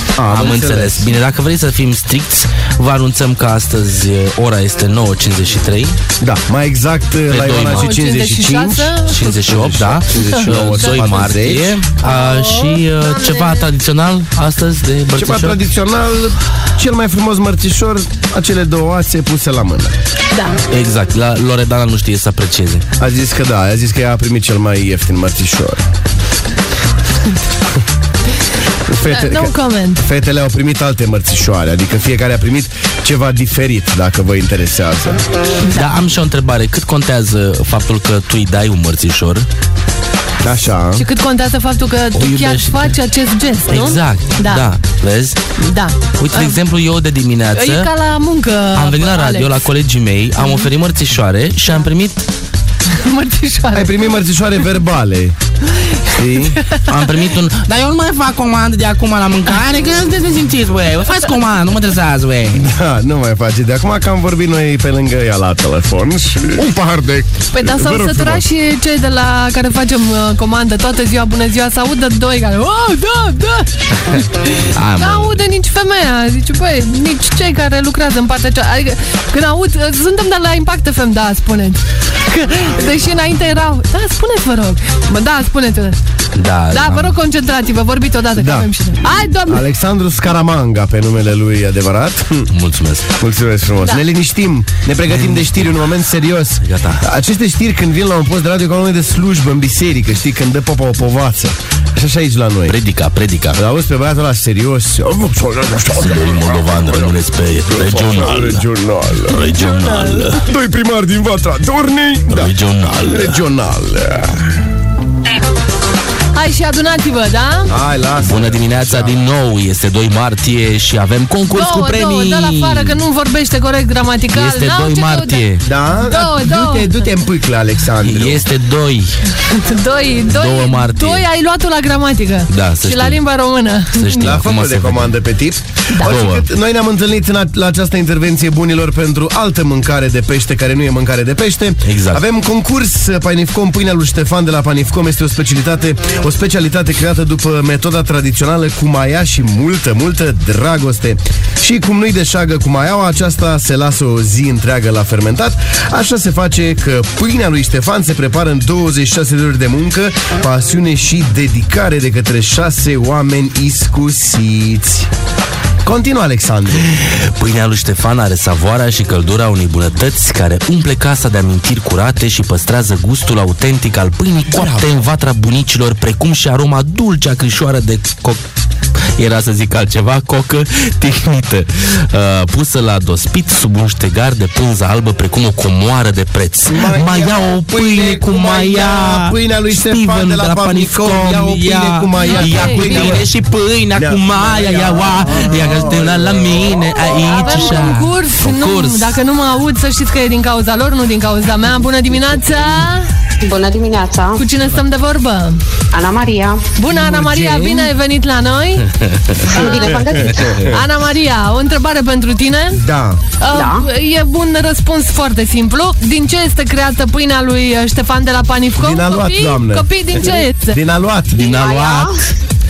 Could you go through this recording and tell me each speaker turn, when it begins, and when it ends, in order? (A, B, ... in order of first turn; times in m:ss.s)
0:00.2-0:01.1 A
0:00.3-0:06.0 B
0:06.2-0:11.8 A
0:07.3-0:07.9 B
0:07.8-0:09.4 C
0:09.1-0:15.6 B
0:10.2-0:11.0 C
0:12.0-0:13.7 C
0:15.2-0:19.9 A
0:20.3-0:20.6 C
0:20.7-0:22.8 B
0:23.0-0:25.8 A
0:28.9-0:35.2 A
0:29.1-0:30.0 C
0:35.7-0:39.5 B
0:40.4-0:41.0 A
0:41.0-0:44.7 C
0:42.2-0:42.9 B
0:43.7-0:45.4 B
0:45.6-0:46.6 C
0:46.2-0:47.9 B
0:47.5-0:49.6 C
0:48.8-0:52.2 B
0:50.4-0:50.7 C
0:52.9-0:54.0 C
0:53.7-0:55.4 A
0:56.1-0:56.6 A
0:56.6-0:56.9 C
0:56.9-1:02.6 B
1:02.5-1:08.4 A
1:07.5-1:26.0 C
1:14.7-1:15.4 B
1:26.4-1:27.2 B
1:26.7-1:29.6 C
1:28.4-1:28.7 A
1:29.5-1:32.5 A
1:32.5-1:33.1 B
1:33.2-1:42.8 A
1:35.1-1:35.8 B
1:36.6-1:37.0 B
1:42.7-1:43.6 B
1:43.6-1:47.2 A
1:46.0-1:48.6 B
1:47.7-1:49.4 A
1:49.3-1:50.4 B
1:49.6-1:50.3 C
1:50.4-1:52.5 A
1:52.3-1:53.4 B
1:53.1-1:54.4 A
1:56.3-1:57.7 C
1:57.7-1:59.2 A
1:58.2-2:03.0 B
2:01.5-2:05.4 C
2:04.3-2:05.7 B
2:05.6-2:08.4 A
2:06.0-2:07.0 C
2:08.0-2:09.1 B
2:09.4-2:14.4 C
2:10.3-2:11.3 B
2:12.5-2:13.2 B
2:14.0-2:15.2 B
2:14.2-2:45.1 A
2:16.0-2:16.5 B
2:21.9-2:22.2 B
2:45.8-2:46.9 A
2:46.9-2:58.4 B
2:54.6-2:54.9 A
2:59.2-3:19.2 B
3:06.7-3:13.3 A
3:12.2-3:13.2 C
3:13.9-3:17.1 A
3:17.0-3:23.1 C
3:23.4-3:24.4 D
3:24.4-3:25.6 C
3:25.9-3:26.7 D
3:26.8-3:28.9 C
3:26.9-3:27.9 B
3:29.0-3:29.3 B
3:29.4-3:32.8 C
3:29.5-3:30.6 D
3:30.4-3:30.7 A
3:32.7-3:33.2 A
3:33.4-3:40.8 C
3:33.5-3:33.8 D
3:38.8-3:39.9 A
3:40.7-3:41.4 A
3:41.4-3:42.2 B
3:41.4-3:42.2 D